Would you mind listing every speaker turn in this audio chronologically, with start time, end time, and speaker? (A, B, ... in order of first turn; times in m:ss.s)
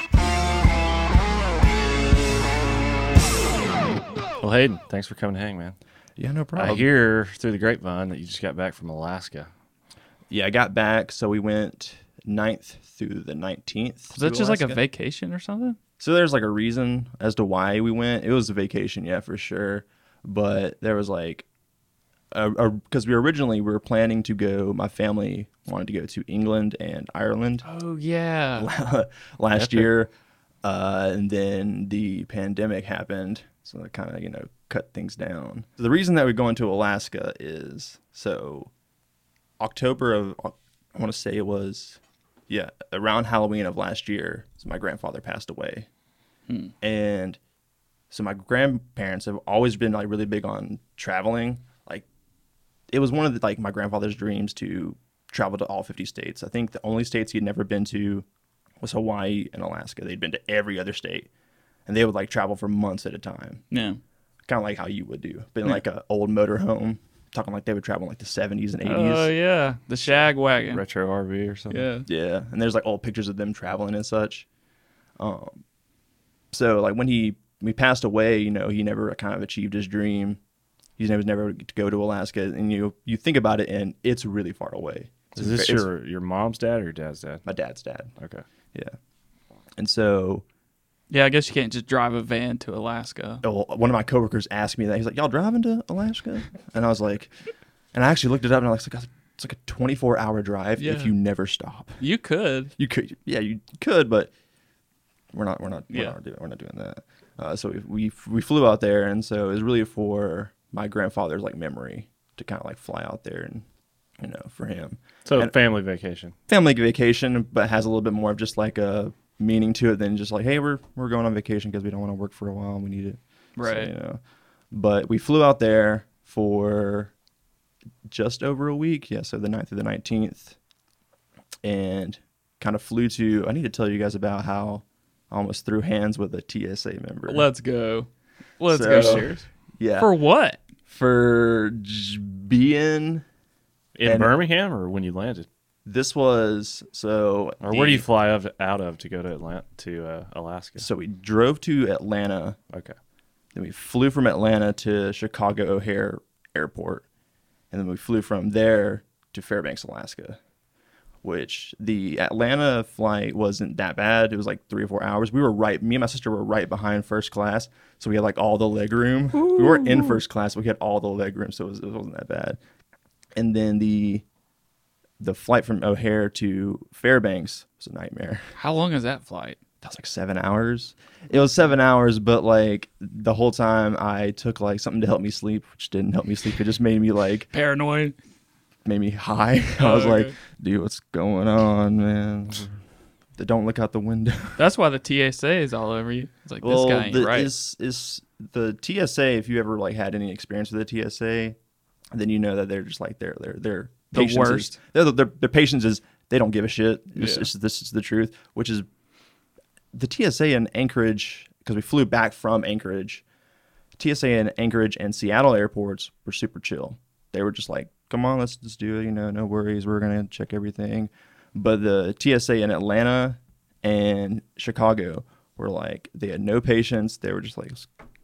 0:04.4-0:05.8 A
0:06.2-0:06.9 B
0:06.6-0:09.5 A
0:10.3-0:14.8 B
0:14.1-0:15.8 C
0:16.0-0:21.5 B
0:22.3-0:27.7 B
0:27.6-0:28.7 C
0:28.6-0:30.1 B
0:29.6-0:29.9 A
0:30.6-0:38.7 B
0:39.6-0:45.9 B
0:46.8-0:47.4 B
0:48.1-0:52.1 B
0:52.9-0:58.3 B
0:58.8-1:01.3 B
1:01.9-1:03.6 B
1:03.7-1:04.0 C
1:04.5-1:09.3 B
1:08.8-1:10.8 C
1:10.7-1:11.9 A
1:11.7-1:12.1 C
1:12.1-1:14.5 B
1:15.2-1:15.6 B
1:16.5-1:20.4 B
1:21.0-1:25.9 B
1:25.4-1:27.4 A
1:27.5-1:28.1 B
1:28.2-1:28.4 A
1:29.8-1:30.4 B
1:31.1-1:33.4 C
1:33.4-1:37.4 B
1:37.9-1:42.0 B
1:40.8-1:41.1 C
1:42.0-1:42.7 C
1:42.8-1:44.3 B
1:45.3-1:53.7 B
1:54.2-1:55.5 B
1:55.2-1:56.4 A
1:56.5-2:04.2 B
2:03.6-2:03.9 C
2:04.7-2:07.1 B
2:08.1-2:10.6 B
2:11.6-2:17.5 B
2:17.3-2:18.1 C
2:18.6-2:19.5 C
2:18.7-2:20.1 B
2:18.9-2:19.3 A
2:20.0-2:20.6 C
2:20.9-2:23.2 B
2:24.0-2:25.5 A
2:24.0-2:24.3 B
2:25.9-2:28.0 B
2:27.6-2:30.9 A
2:30.8-2:32.6 B
2:33.6-2:37.0 B
2:37.7-2:40.4 B
2:41.2-2:52.6 B
2:49.3-2:50.2 C
2:53.4-2:54.2 B
2:55.2-2:58.5 B
2:58.6-2:59.6 C
2:59.8-3:07.5 B
3:07.5-3:08.2 C
3:08.8-3:12.8 B
3:09.8-3:10.3 C
3:13.4-3:14.6 B
3:14.6-3:17.5 C
3:16.6-3:21.6 B
3:22.1-3:28.9 B
3:24.1-3:24.7 C
3:27.2-3:27.5 C
3:29.9-3:33.2 B
3:34.0-3:47.9 B